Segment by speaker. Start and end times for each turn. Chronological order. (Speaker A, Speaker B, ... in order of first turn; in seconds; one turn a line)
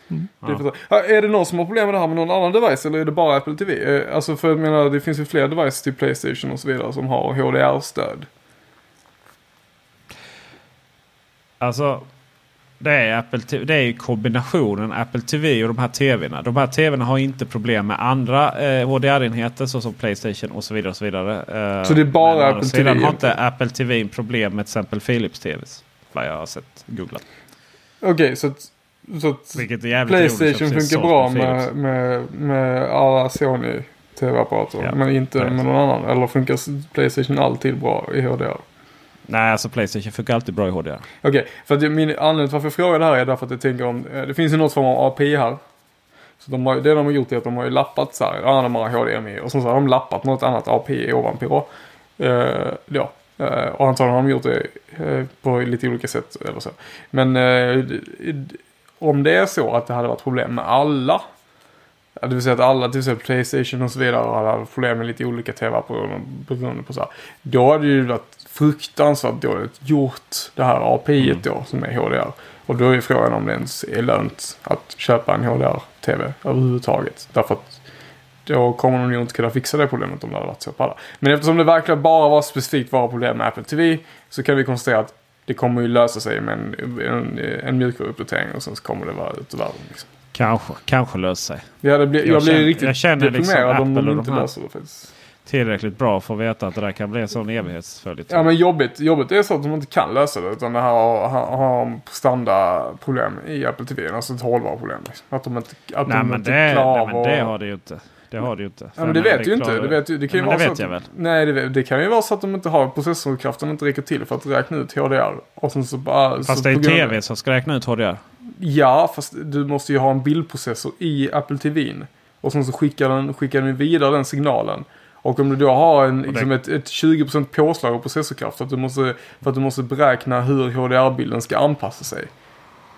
Speaker A: 0.3-8.3
Speaker B: 11.6-12.1
Speaker B: 12.8-27.2
Speaker A: 21.8-23.3
Speaker A: 28.0-38.6
Speaker B: 29.6-31.7
Speaker B: 34.8-35.6
Speaker B: 39.3-41.0
Speaker A: 41.2-45.6
Speaker A: 46.4-61.2
Speaker A: 62.2-77.8
Speaker A: 78.5-90.1
Speaker B: 90.3-91.7
Speaker A: 91.8-95.1
Speaker B: 92.2-94.5
Speaker B: 95.5-98.5
Speaker A: 98.3-107.5
Speaker B: 106.0-111.0
Speaker A: 109.0-117.2
Speaker B: 116.4-118.2
Speaker A: 118.5-132.3